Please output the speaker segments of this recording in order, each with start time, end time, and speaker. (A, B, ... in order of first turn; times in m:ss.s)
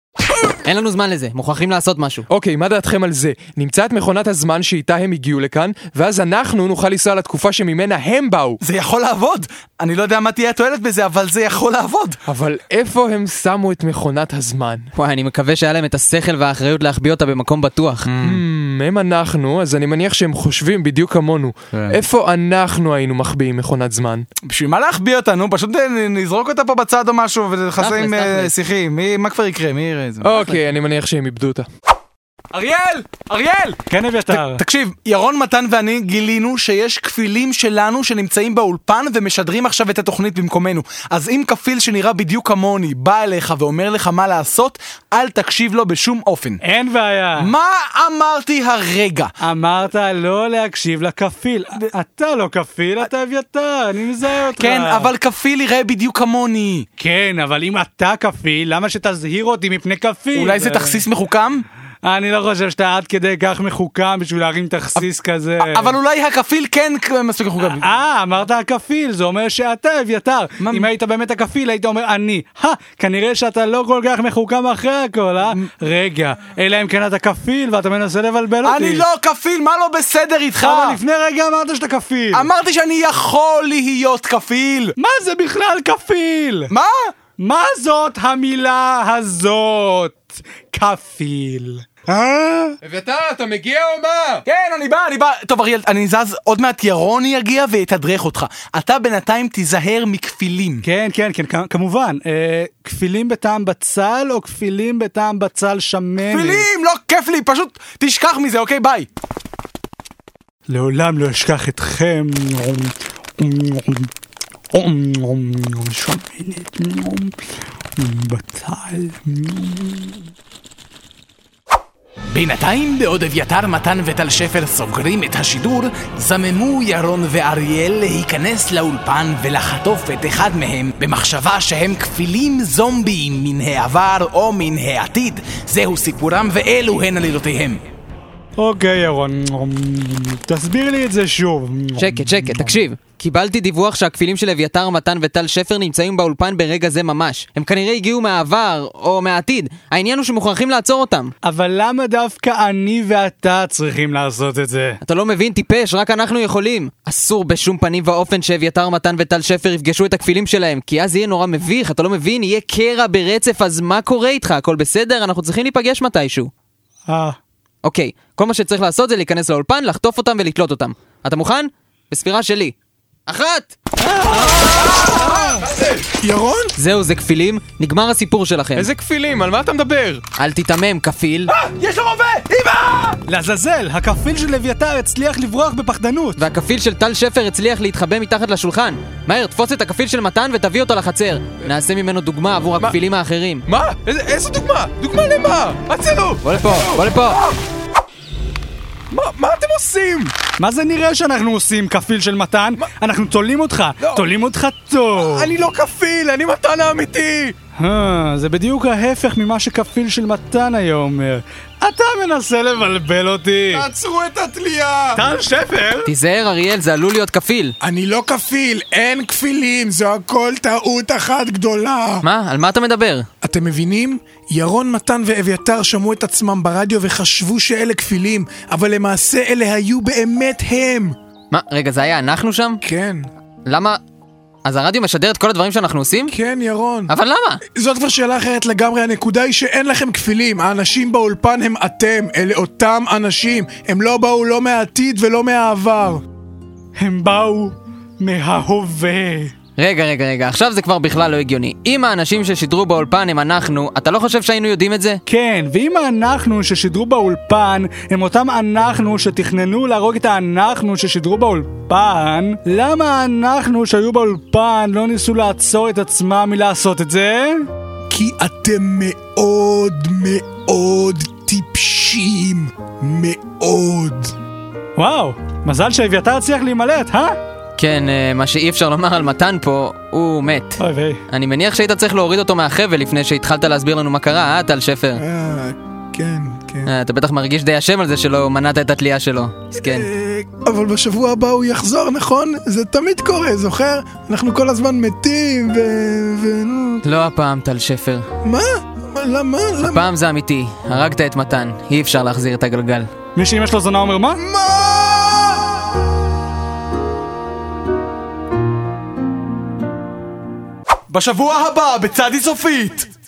0:00.6-0:02.3 A
0:02.3-0:08.6 B
0:08.6-0:12.2 C
0:12.3-0:14.9 B
0:15.0-0:18.1 A
0:18.1-0:18.4 C
0:18.2-0:24.2 B
0:21.7-0:22.0 C
0:24.4-0:30.3 C
0:27.8-0:28.5 A
0:30.2-0:31.7 B
0:32.5-0:46.6 C
0:33.9-0:34.6 D
0:46.6-0:47.5 D
0:47.4-0:49.3 C
0:49.4-0:55.1 D
0:54.4-0:56.9 C
0:57.0-1:01.0 D
1:00.4-1:01.6 C
1:02.0-1:05.9 D
1:05.6-1:07.9 C
1:07.7-1:19.0 D
1:10.6-1:10.9 C
1:18.6-1:21.0 C
1:20.6-1:22.5 D
1:22.3-1:25.0 C
1:25.0-1:26.7 D
1:26.7-1:27.1 C
1:27.4-1:32.8 D
1:32.8-1:34.4 B
1:34.5-1:40.8 C
1:40.8-1:46.7 D
1:46.3-1:49.1 C
1:50.7-1:54.1 D
1:54.7-1:57.4 D
1:58.0-2:00.3 D
2:02.3-2:17.8 C
2:18.6-2:22.6 D
2:22.0-2:31.3 A
2:31.4-2:35.0 D
2:35.0-2:46.5 A
2:47.1-2:47.4 D
2:47.8-2:52.8 A
2:53.3-2:53.8 A
2:56.2-2:56.7 E
2:56.8-2:58.9 A
2:58.8-3:00.2 B
3:00.4-3:01.5 A
3:01.7-3:03.2 C
3:03.3-3:06.4 D
3:06.4-3:13.6 A
3:13.7-3:17.6 B
3:16.4-3:17.4 A
3:19.1-3:20.3 B
3:20.6-3:25.5 D
3:24.0-3:24.3 B
3:25.2-3:27.6 B
3:27.8-3:33.9 D
3:33.7-3:35.2 E
3:35.2-3:36.1 D
3:36.1-3:37.8 A
3:37.8-3:42.2 E
3:42.2-3:43.3 A
3:43.4-3:51.2 E
3:51.5-3:52.8 A
3:52.8-3:53.3 E
3:53.7-3:54.0 A
3:54.6-3:56.4 A
3:56.3-3:57.1 E
3:57.1-3:57.6 A
3:57.7-4:06.2 E
4:07.0-4:09.5 D
4:09.8-4:15.2 A
4:15.3-4:27.7 D
4:28.1-4:34.4 E
4:35.0-4:37.4 D
4:37.8-4:45.2 A
4:40.8-4:41.2 D
4:45.2-4:46.9 E
4:46.8-4:50.1 A
4:49.8-4:57.0 E
4:57.0-4:58.2 A
4:58.4-5:00.0 E
4:59.8-5:03.1 A
5:03.4-5:04.4 D
5:04.5-5:05.7 E
5:11.1-5:13.1 C